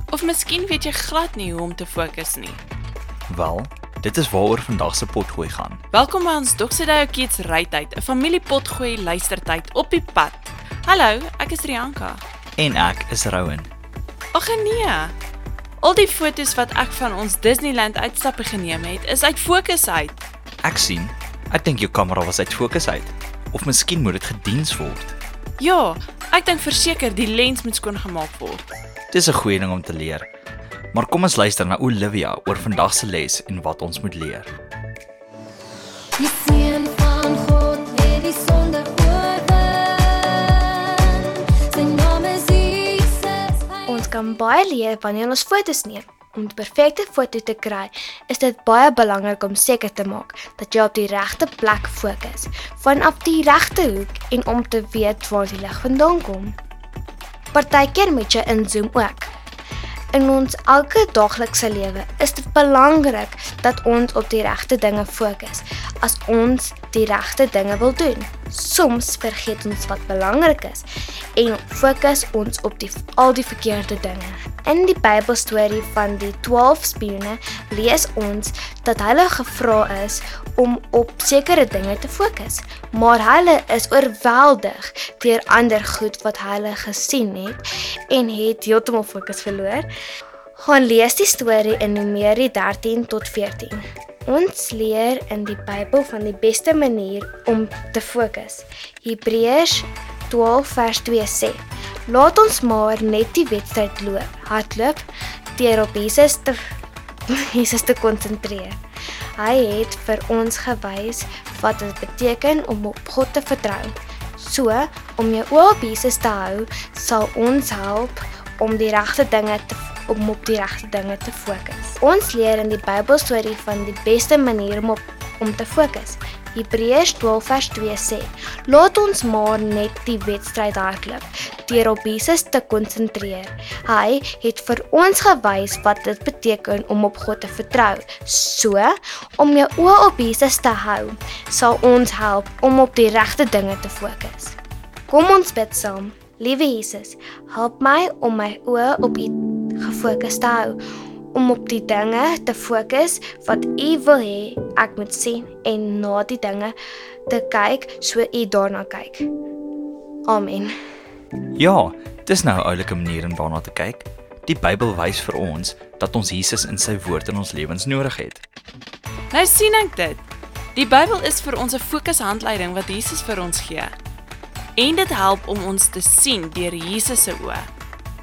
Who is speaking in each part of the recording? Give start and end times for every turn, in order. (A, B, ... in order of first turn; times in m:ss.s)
0:00.1-0:02.6 A
0:03.3-0:05.8 B
0:05.9-0:12.2 A
0:12.6-0:13.7 B
0:14.3-0:15.1 A
0:15.8-0:20.2 A
0:20.6-0:25.2 B
0:25.6-0:28.7 A
0:29.1-0:30.3 B
0:30.9-0:34.5 B
0:36.2-0:43.8 C
0:43.9-0:56.6 D
0:57.5-0:59.3 D
1:00.1-1:29.9 D
1:30.6-1:45.0 D
1:45.6-1:46.6 D
1:47.3-1:48.8 D
1:49.4-2:24.6 D
2:25.1-2:30.8 D
2:31.3-2:36.8 D
2:37.3-2:39.3 D
2:40.3-2:40.7 D
2:41.6-2:48.4 B
2:49.3-2:50.2 A
2:50.8-2:53.9 A
2:54.8-2:57.7 A